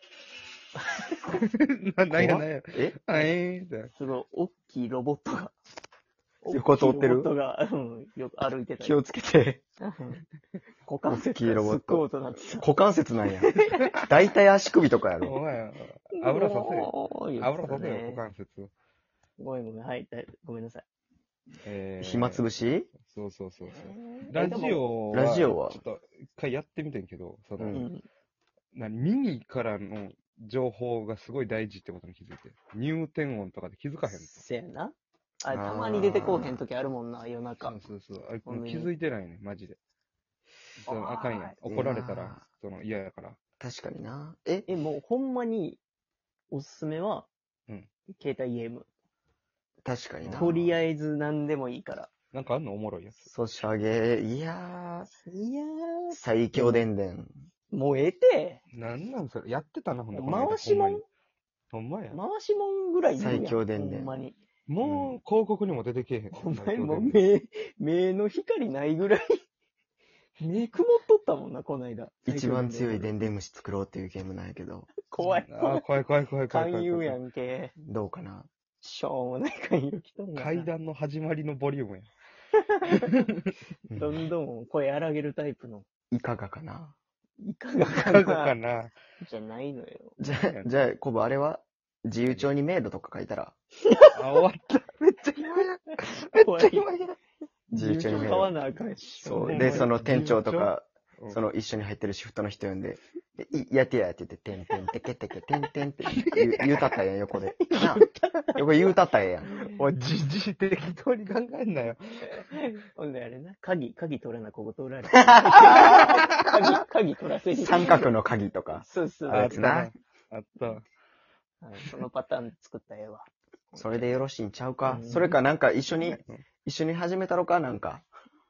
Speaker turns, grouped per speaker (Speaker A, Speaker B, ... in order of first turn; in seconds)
Speaker A: 0.8-1.4, 3.9-5.5, 6.4-9.0, 9.8-10.2, 10.9-12.7, 13.5-14.0, 16.2-18.2, 19.4-20.9, 23.6-24.9, 27.7-28.1, 34.0-37.8, 38.5-38.9, 40.9-41.6, 44.7-45.8, 46.5-47.3, 48.1-48.9, 50.3-52.1, 55.2-56.8, 57.7-58.6, 60.1-61.0, 62.1-64.4, 66.3-69.4, 70.4-73.2, 75.0-77.8, 78.8-80.7, 82.8-83.2, 83.9-85.9, 87.4-88.5, 89.2-90.2, 95.4-97.0, 97.7-99.9, 107.6-108.6, 112.3-118.1, 118.8-119.6, 121.6-124.1, 124.8-125.4
Speaker B: 1.3-3.9, 15.2-18.7, 21.6-27.8, 28.7-34.5, 37.6-39.8, 40.8-43.4, 52.3-53.3, 58.7-61.0, 61.7-62.2, 64.7-67.2, 75.2-77.2, 80.3-82.1, 82.8-83.5, 87.9-89.0, 90.2-90.8, 94.1-97.2, 99.4-101.4, 106.2-106.6, 109.7-112.5, 119.3-120.8
Speaker C: 2.1-3.0, 6.5-7.3, 8.8-9.6, 11.1-15.4, 22.0-22.9, 25.1-25.8, 27.6-27.9, 35.5-36.6, 41.6-42.4, 43.6-44.7, 49.8-50.8, 53.3-55.1, 56.1-57.3, 63.2-64.2, 64.8-65.2, 72.3-74.9, 77.8-78.5, 86.1-87.0, 90.2-93.5, 97.7-98.5, 99.2-109.5, 115.3-116.2, 117.5-119.9, 123.8-128.1